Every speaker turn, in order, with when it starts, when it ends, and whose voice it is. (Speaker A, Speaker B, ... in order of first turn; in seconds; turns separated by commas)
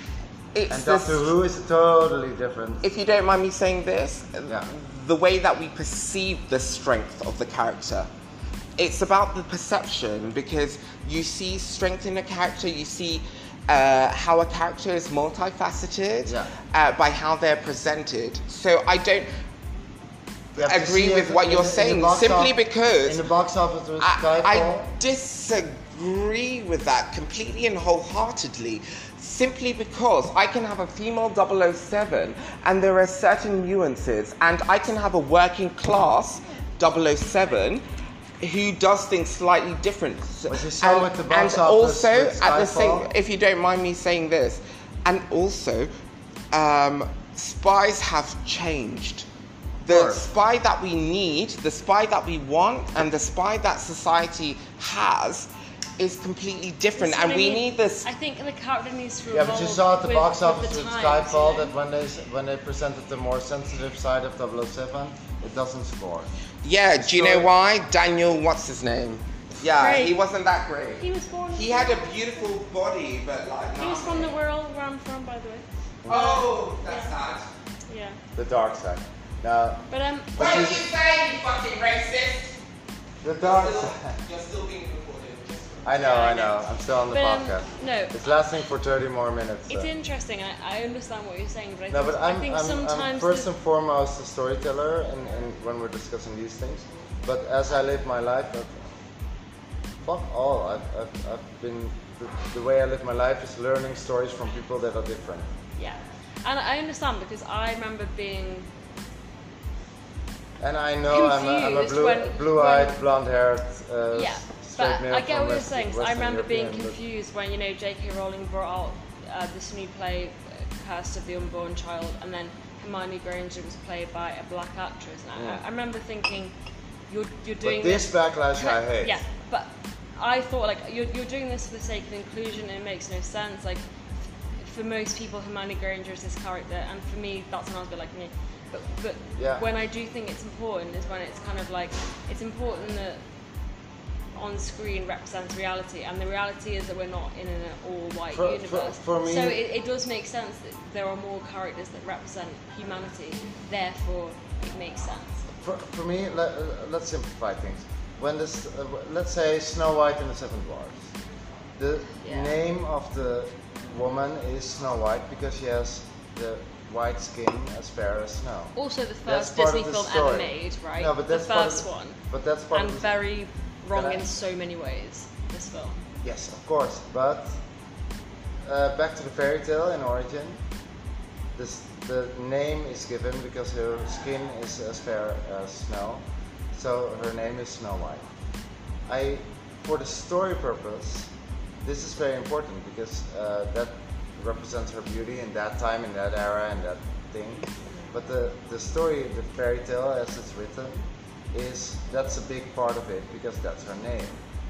Speaker A: 0.5-1.3, Speaker B: 0.7-2.9, Speaker A: 2.8-8.1, Speaker A: 8.8-19.3, Speaker B: 16.2-16.5, Speaker B: 20.5-22.5, Speaker A: 20.6-23.2, Speaker B: 23.0-24.9, Speaker A: 24.0-37.8, Speaker A: 38.4-45.9, Speaker B: 40.5-43.1, Speaker A: 46.5-49.3, Speaker A: 49.8-58.0, Speaker B: 49.9-50.2, Speaker C: 57.0-61.7, Speaker B: 59.3-66.3, Speaker A: 66.6-74.3, Speaker B: 67.0-67.5, Speaker C: 69.8-70.2, Speaker C: 71.0-72.6, Speaker C: 73.8-77.1, Speaker B: 76.0-76.3, Speaker A: 76.1-77.5, Speaker C: 77.9-78.2, Speaker B: 78.3-80.8, Speaker C: 79.9-80.6, Speaker A: 80.3-82.5, Speaker B: 83.2-84.1, Speaker A: 83.4-86.0, Speaker B: 85.8-89.9, Speaker C: 85.9-88.5, Speaker C: 89.7-93.5, Speaker B: 91.9-98.8, Speaker B: 100.0-105.5, Speaker C: 105.8-108.7, Speaker B: 110.6-117.0, Speaker C: 111.1-113.0, Speaker C: 114.1-126.5, Speaker B: 125.3-125.6, Speaker C: 127.1-133.8, Speaker B: 127.6-129.2, Speaker C: 134.6-143.2, Speaker B: 139.4-139.7, Speaker C: 144.3-155.4, Speaker B: 148.3-149.6, Speaker B: 155.6-161.0, Speaker B: 161.8-168.7, Speaker C: 162.2-162.6, Speaker C: 168.8-172.2, Speaker B: 169.2-173.1, Speaker C: 172.7-176.0, Speaker B: 173.9-174.2, Speaker B: 176.2-177.6, Speaker B: 178.6-180.6, Speaker B: 181.6-188.2, Speaker B: 189.1-204.4